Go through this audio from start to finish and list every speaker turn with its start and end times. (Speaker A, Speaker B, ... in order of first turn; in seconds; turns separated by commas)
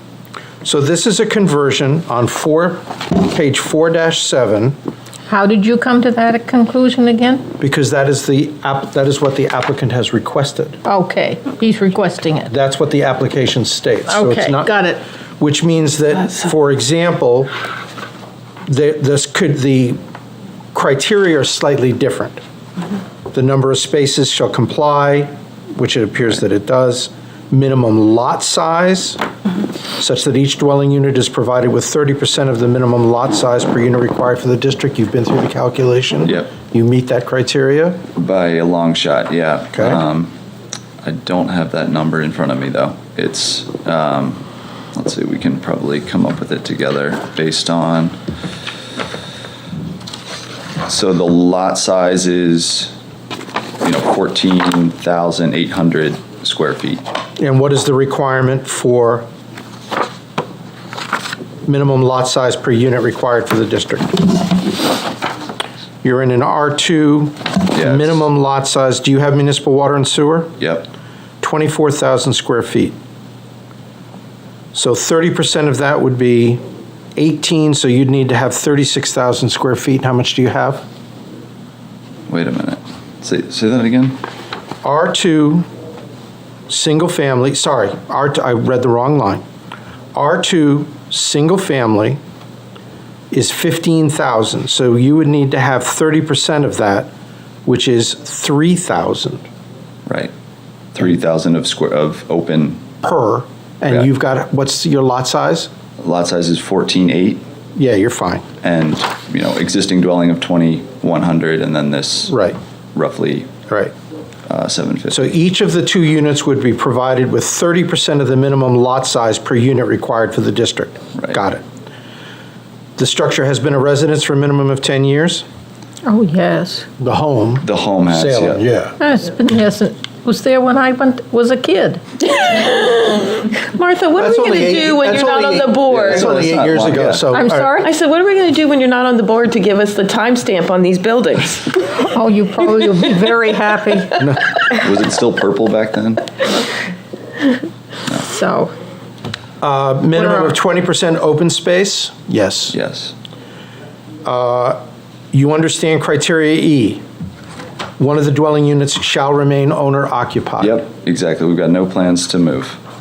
Speaker A: 0.6-4.8, Speaker B: 5.3-7.5, Speaker A: 7.6-10.8, Speaker B: 10.8-12.5, Speaker A: 12.5-14.7, Speaker B: 14.1-15.0, Speaker A: 15.4-17.5, Speaker A: 18.7-20.0, Speaker A: 20.7-22.4, Speaker A: 23.3-29.2, Speaker A: 30.0-38.0, Speaker C: 38.1-40.3, Speaker A: 39.7-40.0, Speaker C: 41.0-44.4, Speaker C: 44.9-48.1, Speaker C: 50.9-52.9, Speaker C: 53.8-57.0, Speaker A: 57.4-59.3, Speaker A: 61.6-64.2, Speaker A: 66.0-70.5, Speaker C: 67.7-68.2, Speaker C: 70.6-70.9, Speaker A: 71.4-73.0, Speaker A: 74.7-76.6, Speaker A: 77.2-80.8, Speaker C: 82.3-84.2, Speaker A: 84.8-85.7, Speaker A: 86.7-89.4, Speaker A: 90.1-92.2, Speaker A: 93.3-97.1, Speaker A: 97.7-99.5, Speaker C: 100.0-100.3, Speaker C: 100.9-102.8, Speaker A: 103.0-105.7, Speaker C: 106.0-107.4, Speaker A: 107.8-108.4, Speaker C: 108.6-112.3, Speaker A: 112.3-112.6, Speaker C: 112.9-113.5, Speaker C: 114.5-115.2, Speaker A: 115.1-121.6, Speaker A: 123.0-125.4, Speaker B: 126.0-126.9, Speaker A: 127.0-128.9, Speaker C: 127.6-128.6, Speaker B: 129.0-132.0, Speaker D: 132.2-136.4, Speaker A: 134.2-137.8, Speaker C: 135.9-137.2, Speaker B: 137.3-137.9, Speaker D: 137.8-141.9, Speaker B: 142.0-144.2, Speaker C: 144.7-146.2, Speaker B: 148.2-148.7, Speaker A: 149.6-152.7, Speaker B: 150.2-150.5, Speaker C: 152.7-153.1, Speaker A: 154.2-154.8, Speaker A: 155.3-157.0, Speaker A: 158.0-160.8, Speaker C: 160.6-162.8